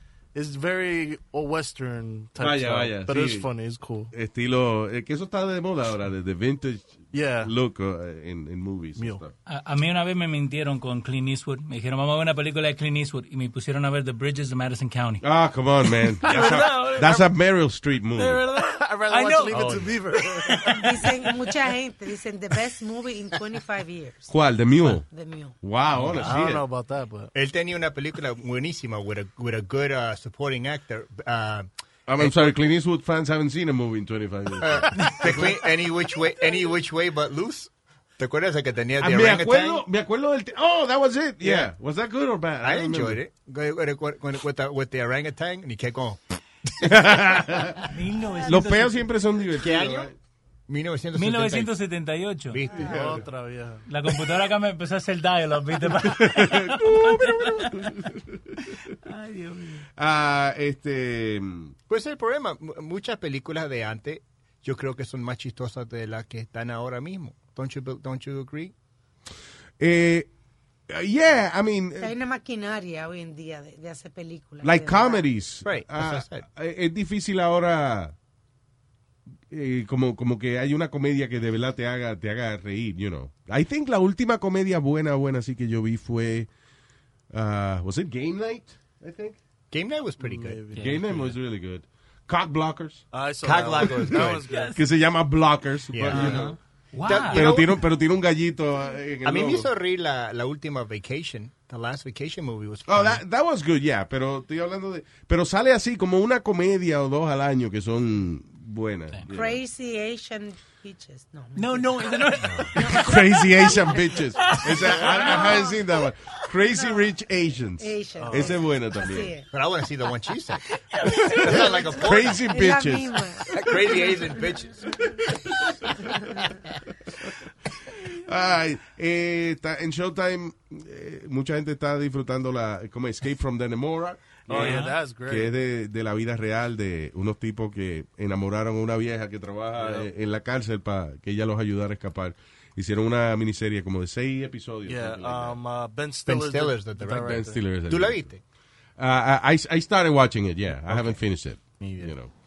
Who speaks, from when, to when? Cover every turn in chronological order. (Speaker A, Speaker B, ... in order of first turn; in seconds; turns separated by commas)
Speaker A: 0.3-4.1, Speaker B: 2.4-3.5, Speaker B: 4.1-9.3, Speaker A: 7.1-7.5, Speaker A: 9.0-9.2, Speaker C: 9.4-15.2, Speaker B: 15.2-18.4, Speaker A: 16.2-17.3, Speaker A: 18.1-20.8, Speaker C: 19.1-21.5, Speaker B: 19.5-19.8, Speaker D: 20.8-24.3, Speaker B: 24.3-25.0, Speaker D: 25.0-25.6, Speaker B: 25.6-26.6, Speaker A: 25.9-27.3, Speaker E: 27.3-32.4, Speaker B: 32.1-35.6, Speaker E: 34.6-39.9, Speaker B: 39.0-43.2, Speaker E: 41.4-41.7, Speaker E: 42.6-46.2, Speaker B: 46.8-47.9, Speaker C: 47.9-49.1, Speaker B: 48.5-50.1, Speaker E: 49.6-50.1, Speaker E: 50.7-51.7, Speaker C: 51.1-52.6, Speaker E: 52.5-53.3, Speaker A: 52.9-53.8, Speaker C: 53.9-57.9, Speaker B: 56.0-58.5, Speaker C: 58.7-59.8, Speaker B: 60.0-61.7, Speaker E: 61.9-68.7, Speaker B: 69.8-70.3, Speaker B: 70.9-72.1, Speaker D: 72.0-75.3, Speaker B: 74.6-78.1, Speaker E: 75.6-76.5, Speaker B: 79.5-86.5, Speaker B: 87.3-89.4, Speaker E: 89.7-90.6, Speaker A: 90.2-91.4, Speaker B: 90.7-93.0, Speaker A: 93.1-94.8, Speaker E: 93.4-94.4, Speaker B: 93.8-96.5, Speaker E: 95.9-97.8, Speaker C: 96.1-97.6, Speaker B: 97.3-99.7, Speaker E: 99.2-103.2, Speaker B: 102.9-109.6, Speaker D: 109.3-112.2, Speaker C: 111.5-113.0, Speaker B: 112.6-119.3, Speaker D: 112.8-115.8, Speaker C: 114.4-115.5, Speaker D: 117.8-119.5, Speaker A: 118.2-118.6, Speaker E: 119.5-120.6, Speaker C: 120.9-122.0, Speaker E: 121.3-122.5, Speaker B: 122.0-123.1, Speaker D: 122.5-124.5, Speaker E: 123.5-124.8, Speaker B: 125.0-125.6, Speaker B: 127.9-145.6, Speaker A: 134.5-135.5, Speaker C: 134.5-135.0, Speaker A: 139.7-140.1, Speaker A: 144.8-147.6, Speaker E: 146.2-148.4, Speaker B: 147.2-148.3, Speaker B: 149.0-152.3, Speaker A: 150.9-151.2, Speaker A: 151.7-152.1